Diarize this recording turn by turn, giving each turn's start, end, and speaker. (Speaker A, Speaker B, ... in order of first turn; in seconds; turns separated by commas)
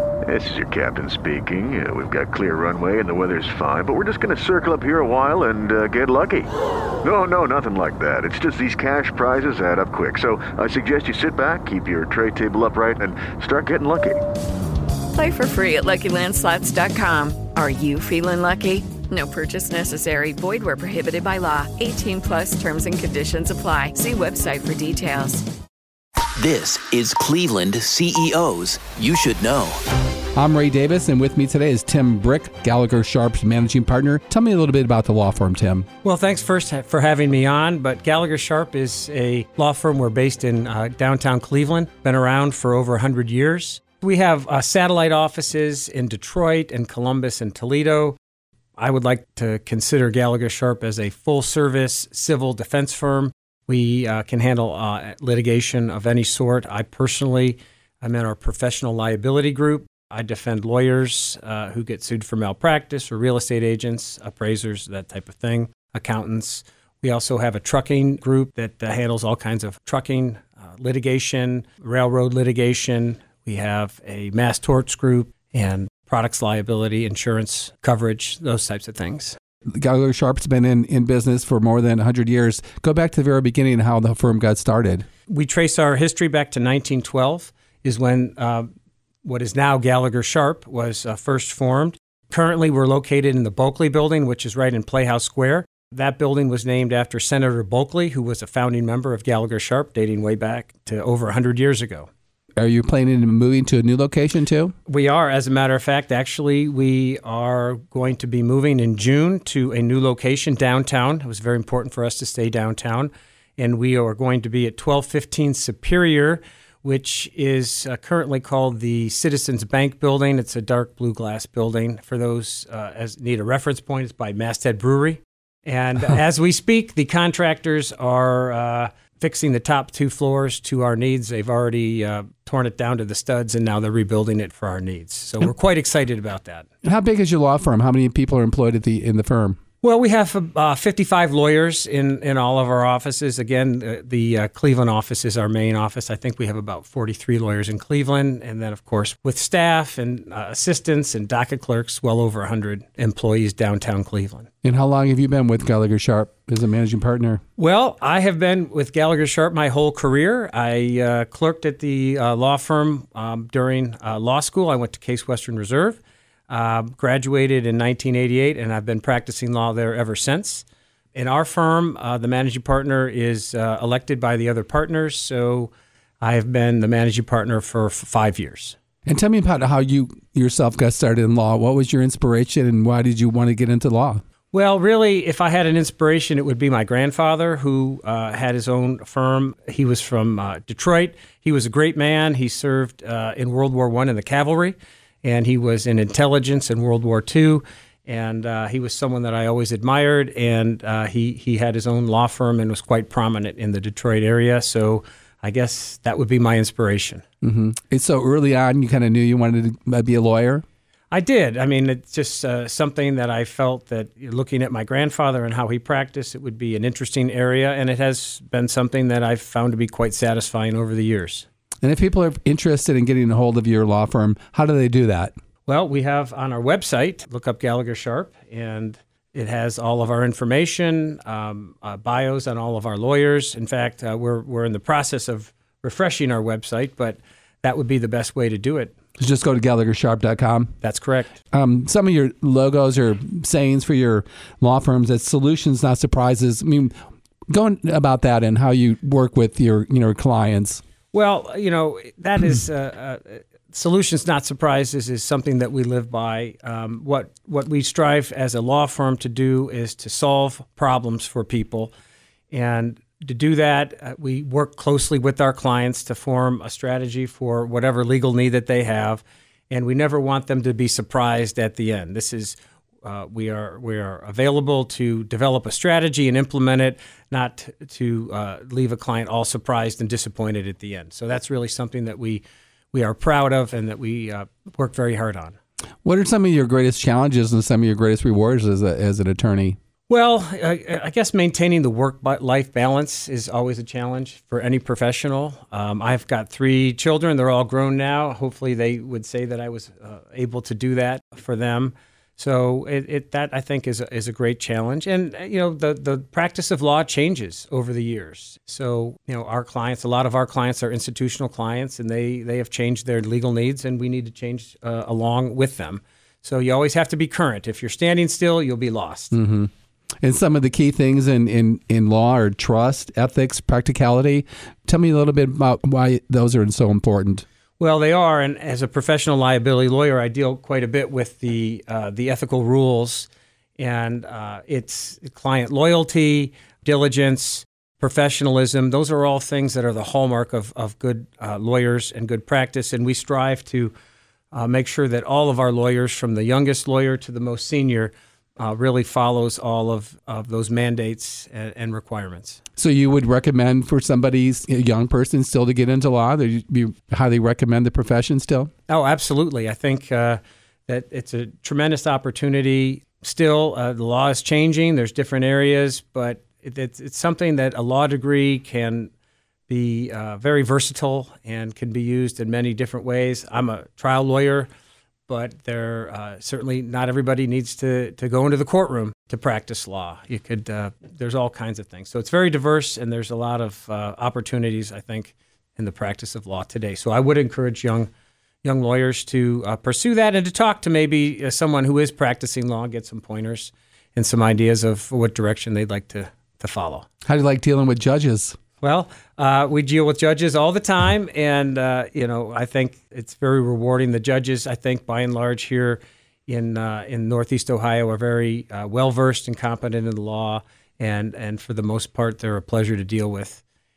Speaker A: 0.3-6.5, Speaker A: 7.0-14.2, Speaker B: 15.1-25.4, Speaker C: 26.4-29.8, Speaker D: 30.4-35.9, Speaker E: 36.0-48.2, Speaker E: 48.8-79.4, Speaker D: 79.7-85.1, Speaker E: 85.3-88.7, Speaker E: 89.2-102.1, Speaker D: 102.6-104.7, Speaker E: 104.9-136.7, Speaker D: 136.8-139.6, Speaker E: 139.8-154.5, Speaker D: 154.6-157.4, Speaker E: 157.6-178.8, Speaker D: 179.1-184.2, Speaker E: 184.5-207.2, Speaker D: 207.4-210.6, Speaker E: 211.1-221.5, Speaker D: 221.8-225.3, Speaker E: 225.7-238.9, Speaker D: 239.2-240.7, Speaker E: 240.8-241.4, Speaker D: 241.5-246.9, Speaker D: 247.5-250.8, Speaker E: 251.1-261.9, Speaker E: 262.5-285.6, Speaker D: 286.0-289.8, Speaker E: 290.1-319.3, Speaker D: 319.3-319.7, Speaker D: 320.2-327.4, Speaker E: 327.8-343.9, Speaker E: 344.5-352.6, Speaker D: 352.8-358.7, Speaker E: 358.9-369.1, Speaker E: 369.7-374.7, Speaker E: 375.3-388.1, Speaker E: 388.6-397.1, Speaker D: 397.2-398.6, Speaker E: 398.8-413.6